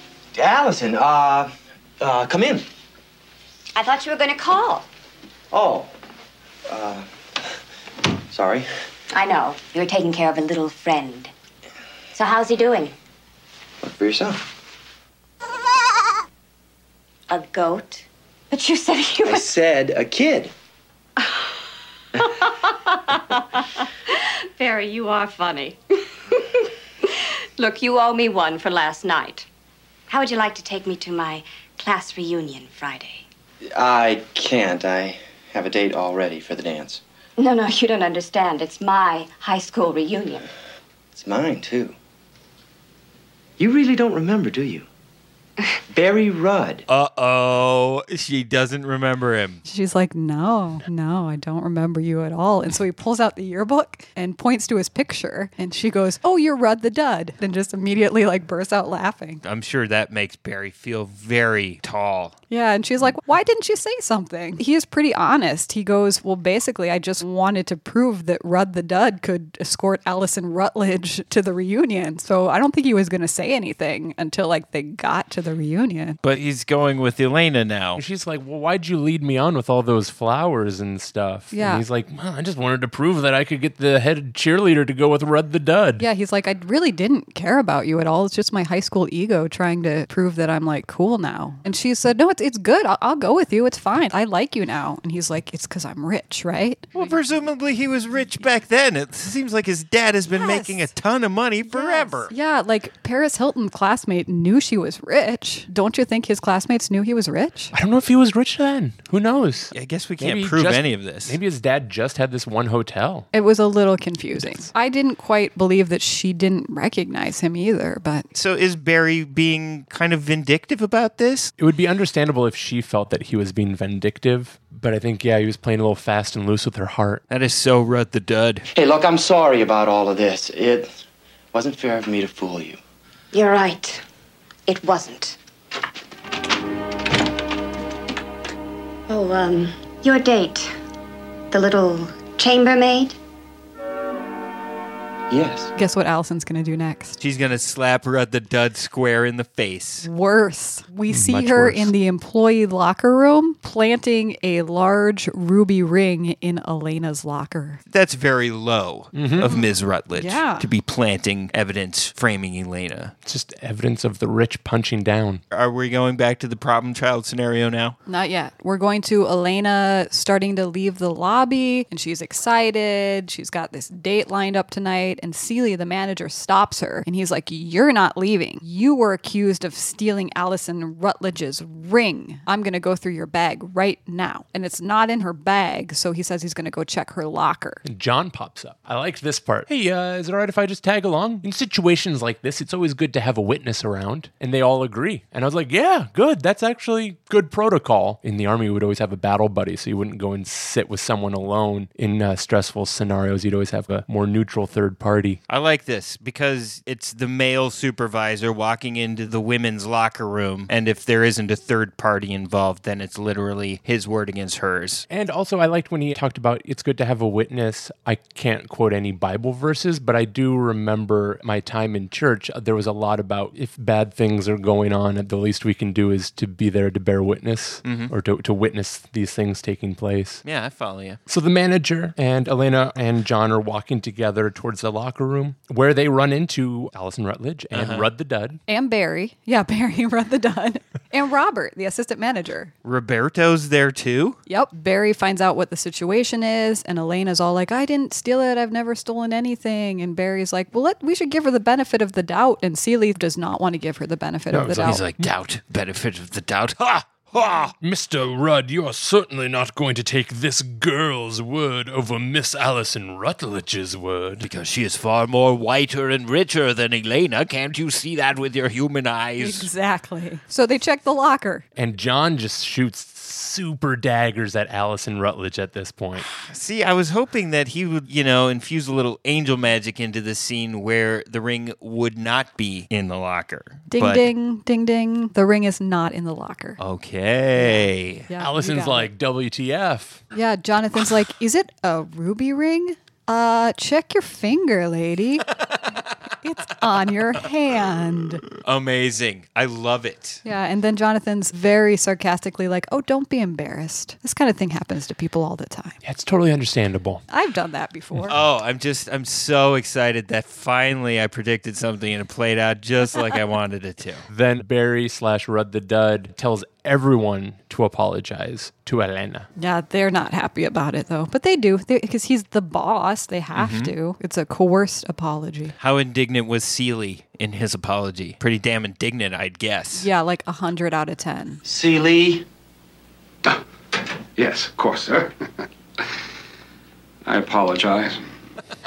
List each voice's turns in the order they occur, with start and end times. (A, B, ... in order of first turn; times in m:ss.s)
0:00.3-0:02.6 A
0:03.8-0:04.8 B
0:05.5-0:05.9 A
0:06.7-0:07.1 A
0:08.3-0:08.7 A
0:09.1-0:11.3 B
0:12.1-0:12.9 B
0:13.8-0:14.4 A
0:17.3-0:19.5 B
0:19.2-0:20.5 A
0:24.6-0:25.8 B
0:27.6-0:29.5 B
0:30.1-0:33.2 B
0:33.7-0:37.0 A
0:37.4-0:40.5 B
0:41.1-0:41.9 A
0:43.6-0:44.8 A
0:45.9-0:46.8 A
0:46.9-0:49.6 C
0:49.6-0:59.4 D
0:59.4-1:02.3 C
1:02.5-1:16.2 D
1:16.2-1:18.0 C
1:18.0-1:26.0 E
1:21.5-1:21.8 D
1:26.0-1:37.1 D
1:36.9-1:42.3 C
1:40.3-1:40.9 D
1:41.7-1:47.7 D
1:47.7-1:53.3 E
1:49.7-1:51.4 C
1:53.3-1:58.3 D
1:58.3-2:01.5 C
2:01.6-2:07.2 E
2:07.3-2:08.7 C
2:08.7-2:10.9 A
2:11.5-2:12.8 A
2:13.3-2:14.0 B
2:14.7-2:15.4 B
2:19.1-2:20.7 B
2:21.5-2:23.2 B
2:25.3-2:25.7 A
2:25.7-2:27.2 D
2:27.2-2:30.0 C
2:30.0-2:37.8 D
2:31.1-2:31.9 E
2:37.9-2:43.1 C
2:39.1-2:39.5 E
2:40.2-2:40.6 D
2:43.2-2:45.4 E
2:45.5-2:48.0 C
2:48.1-3:07.8 D
3:07.8-3:25.4 E
3:25.5-3:35.0 C
3:35.1-3:50.4 E
3:47.8-3:48.1 C
3:50.4-3:51.2 C
3:51.3-3:58.6 E
3:57.7-3:58.1 C
3:58.7-4:02.7 D
4:02.8-4:04.4 C
4:04.5-4:15.0 D
4:14.5-4:15.3 E
4:14.8-4:17.7 C
4:17.8-4:24.5 E
4:24.4-4:29.7 C
4:29.4-4:31.6 D
4:31.8-4:36.3 E
4:36.2-4:44.3 C
4:43.9-4:46.8 D
4:46.8-4:48.3 C
4:47.6-4:49.1 D
4:48.4-4:50.2 E
4:50.3-4:55.5 D
4:56.4-4:58.4 D
4:58.6-5:00.4 C
5:00.4-5:06.0 D
5:06.0-5:07.2 E
5:07.3-5:08.4 D
5:08.3-5:14.2 C
5:14.3-5:19.5 E
5:19.6-5:25.7 D
5:23.5-5:23.9 C
5:25.8-5:30.1 C
5:30.0-5:31.6 D
5:31.6-5:32.4 A
5:34.4-5:35.3 F
5:37.2-5:38.2 F